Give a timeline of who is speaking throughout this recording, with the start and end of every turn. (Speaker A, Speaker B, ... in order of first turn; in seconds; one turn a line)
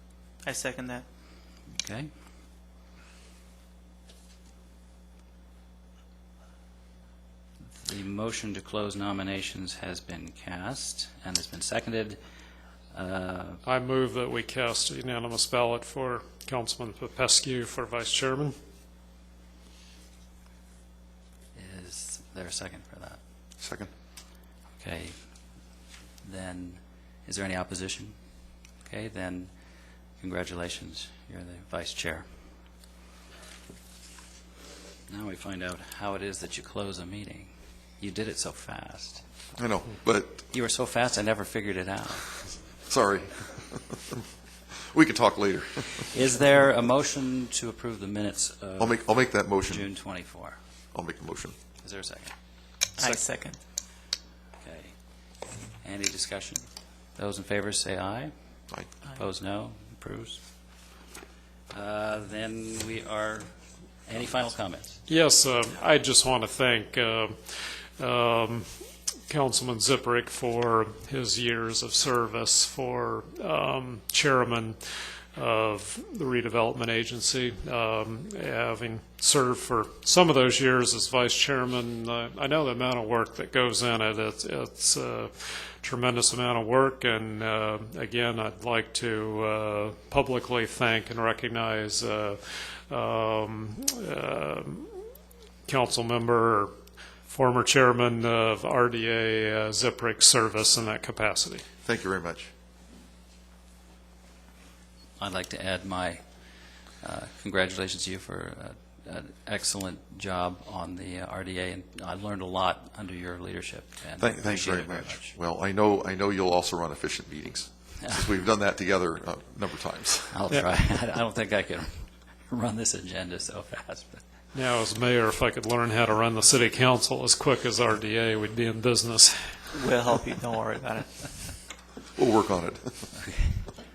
Speaker A: 0.4-1.1
Speaker B: 1.8-2.1
Speaker B: 7.7-12.2
Speaker B: 12.9-13.6
Speaker C: 13.7-18.6
Speaker B: 21.5-23.2
Speaker D: 23.6-23.9
Speaker B: 24.8-25.2
Speaker B: 26.2-28.2
Speaker B: 28.9-29.5
Speaker B: 30.2-32.3
Speaker B: 35.1-39.2
Speaker D: 39.6-40.5
Speaker B: 40.5-42.3
Speaker D: 42.9-44.2
Speaker D: 44.9-46.1
Speaker B: 46.1-49.0
Speaker D: 48.8-49.9
Speaker B: 49.7-50.6
Speaker D: 50.9-51.6
Speaker B: 51.8-52.3
Speaker A: 53.0-53.6
Speaker B: 54.6-55.2
Speaker B: 55.8-58.3
Speaker B: 59.0-60.4
Speaker B: 61.7-63.5
Speaker B: 64.1-65.0
Speaker C: 65.1-74.8
Speaker C: 75.3-94.9
Speaker C: 95.7-96.7
Speaker C: 97.3-101.7
Speaker D: 101.8-102.5
Speaker B: 105.2-106.2
Speaker B: 107.0-115.3
Speaker D: 114.2-120.4
Speaker B: 120.3-124.2
Speaker C: 124.5-129.7
Speaker A: 129.7-131.3
Speaker D: 132.2-133.1
Speaker B: 133.2-133.7